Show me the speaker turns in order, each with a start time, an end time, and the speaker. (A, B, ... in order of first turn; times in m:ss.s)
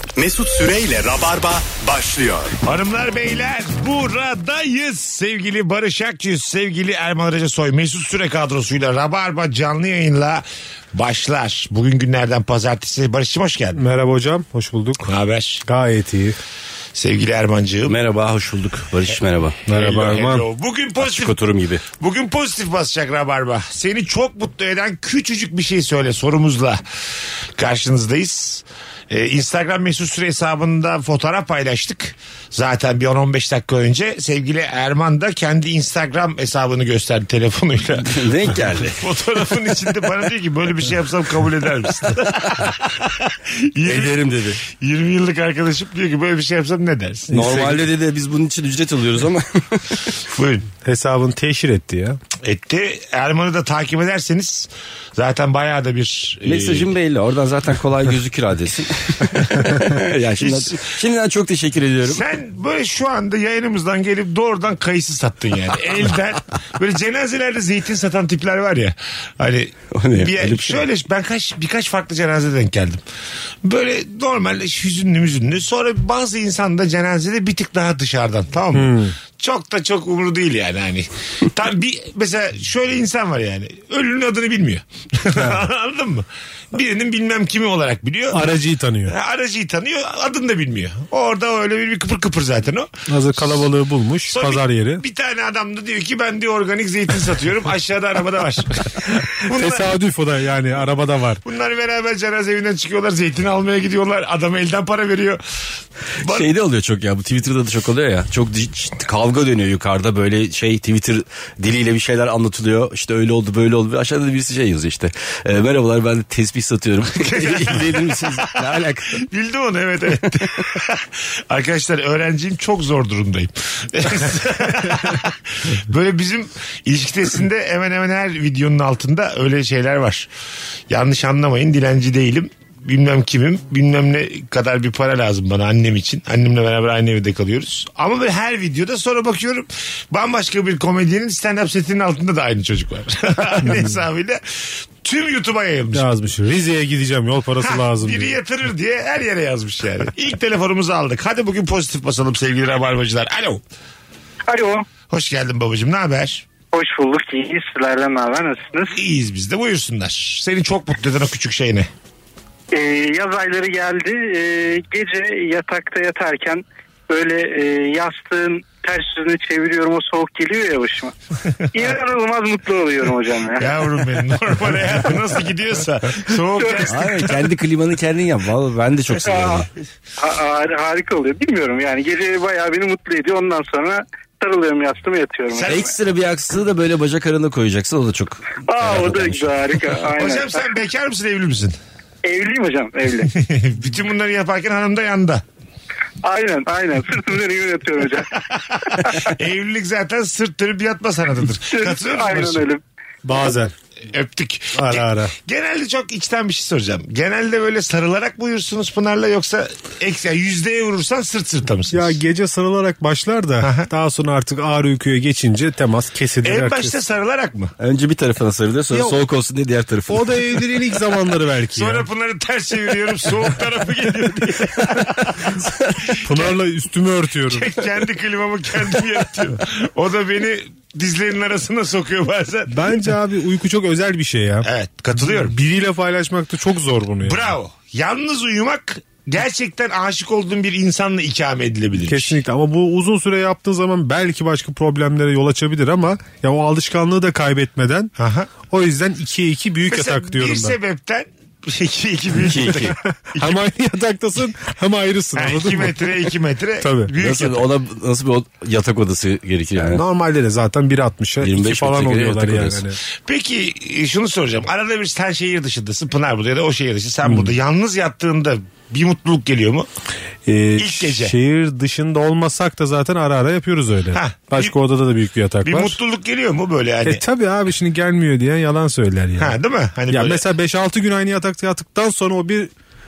0:00.2-0:02.6 A
0:02.6-0:13.8 B
0:13.7-0:15.1 C
0:15.0-0:15.6 B
0:15.6-0:16.4 C
0:17.0-0:18.0 B
0:17.9-0:19.6 D
0:19.7-0:20.5 C
0:19.7-0:21.4 B
0:21.0-0:21.8 D
0:21.9-0:26.8 B
0:27.6-0:47.3 B
0:38.0-0:39.0 D
0:43.8-0:44.6 D
0:47.3-0:47.9 C
0:47.3-0:50.0 D
0:50.3-0:50.7 B
0:50.8-0:52.2 C
0:52.4-0:56.9 B
0:56.4-1:02.2 D
0:59.6-1:00.8 B
1:02.0-1:13.0 B
1:09.9-1:10.8 D
1:13.6-1:28.5 B
1:18.7-1:19.2 C
1:25.4-1:25.6 C
1:28.3-1:29.2 C
1:29.1-1:33.6 B
1:33.1-1:35.0 C
1:34.3-1:39.9 B
1:39.5-1:41.4 C
1:41.4-1:45.4 B
1:46.2-1:46.5 B
1:46.2-1:59.2 D
1:57.2-1:58.3 B
1:59.2-2:10.3 B
2:10.9-2:26.1 B
2:23.7-2:23.9 C
2:25.9-2:28.4 C
2:27.6-2:33.6 B
2:34.5-2:34.8 E
2:35.1-2:36.5 B
2:36.7-2:39.0 E
2:38.9-2:41.9 B
2:42.7-2:51.2 E
2:51.7-2:53.8 E
2:53.6-2:57.1 B
2:56.6-2:56.9 E
2:56.9-2:59.7 D
2:59.2-2:59.6 E
3:00.2-3:05.9 E
3:05.5-3:05.9 B
3:05.6-3:10.0 D
3:08.7-3:10.6 E
3:10.1-3:11.8 B
3:12.2-3:13.3 E
3:13.3-3:15.4 B
3:16.2-3:18.4 E
3:19.0-3:19.3 E
3:19.1-3:22.7 B
3:21.6-3:22.8 E
3:23.2-3:23.7 C
3:24.0-3:32.1 B
3:24.7-3:25.3 C
3:31.9-3:37.0 C
3:33.6-3:33.9 B
3:36.4-3:37.7 B
3:37.8-3:40.4 D
3:38.9-3:39.2 C
3:40.1-3:42.1 C
3:41.7-3:46.5 B
3:46.2-3:47.7 C
3:47.5-3:52.8 B
3:52.7-3:57.5 C
3:54.6-3:55.6 B
3:57.2-4:02.4 B
4:02.0-4:08.1 C
4:08.2-4:08.5 B
4:08.7-4:10.8 C
4:09.9-4:13.6 B
4:12.4-4:13.0 D
4:12.8-4:17.1 C
4:15.4-4:17.6 B
4:17.2-4:20.0 D
4:19.9-4:23.0 C
4:21.4-4:22.8 D
4:23.2-4:29.9 B
4:27.2-4:27.5 C
4:30.5-4:36.0 C
4:30.8-4:31.3 B
4:34.1-4:34.7 B
4:35.6-4:37.2 B
4:37.0-4:39.6 C
4:39.4-4:40.4 B
4:40.1-4:42.7 C